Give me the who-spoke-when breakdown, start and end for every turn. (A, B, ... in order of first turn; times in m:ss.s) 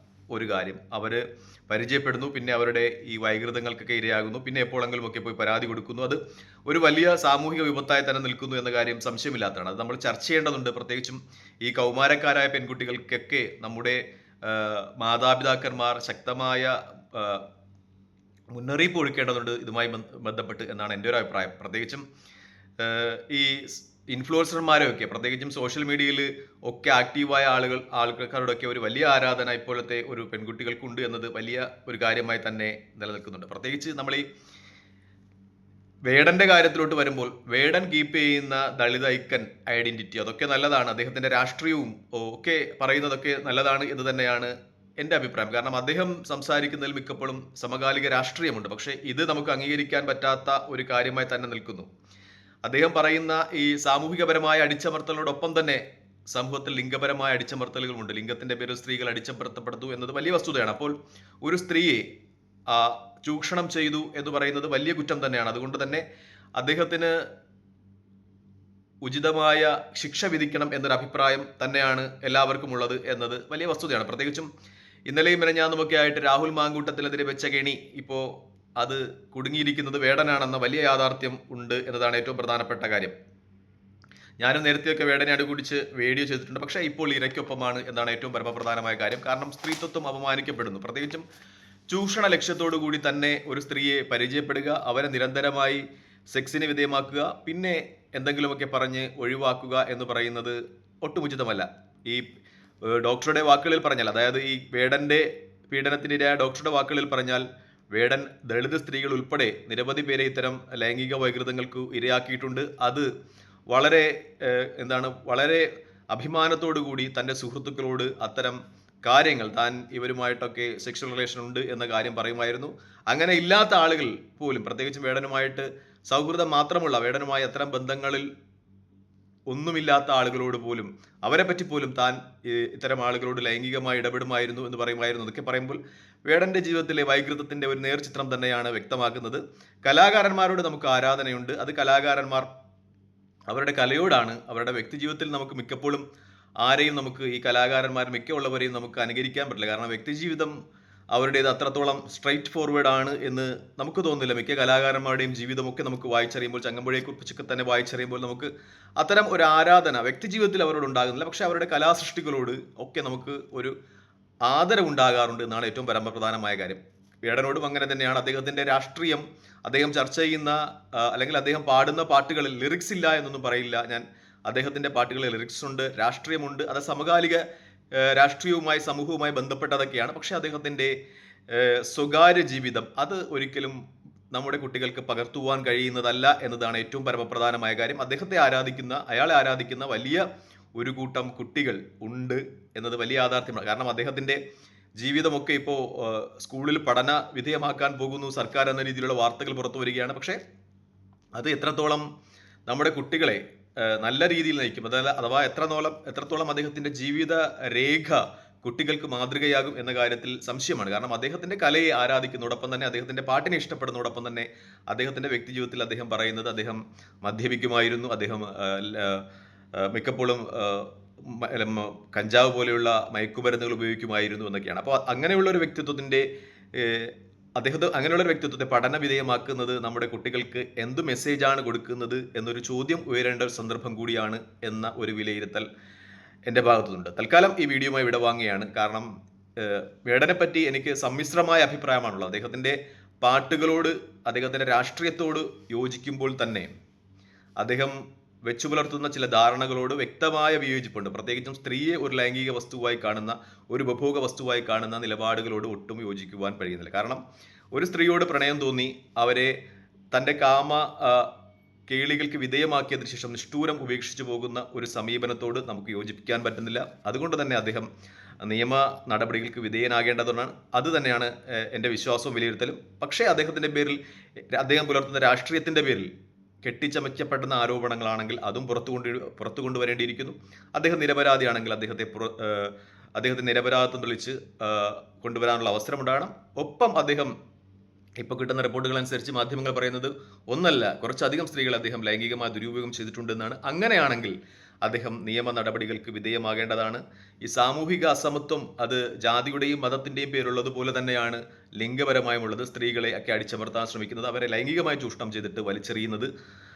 0:00.3-0:17.4 A
0:18.5-0:22.0 A
0:22.8-0:34.2 A
0:36.1-0:51.9 A
0:52.6-1:02.0 A
1:02.7-1:06.0 A
1:06.6-1:07.2 A
1:09.0-1:14.5 A
1:15.1-1:23.2 A
1:24.4-1:31.2 A
1:31.9-1:42.2 A
1:42.8-1:53.1 A
1:53.7-2:08.3 A
2:09.5-2:22.5 A
2:23.5-2:26.0 A
2:26.6-2:30.5 A
2:31.1-2:43.8 A
2:44.4-2:57.4 A
2:57.9-3:00.9 A
3:01.5-3:03.8 A
3:04.3-3:14.4 A
3:15.0-3:20.4 A
3:21.4-3:22.0 A
3:22.7-3:39.2 A
3:39.8-3:55.7 A
3:56.5-4:06.7 A
4:07.6-4:17.2 A
4:17.7-4:19.6 A
4:20.1-4:21.3 A
4:21.9-4:27.9 A
4:28.4-4:34.0 A
4:34.5-4:36.1 A
4:36.6-4:47.3 A
4:48.2-5:06.3 A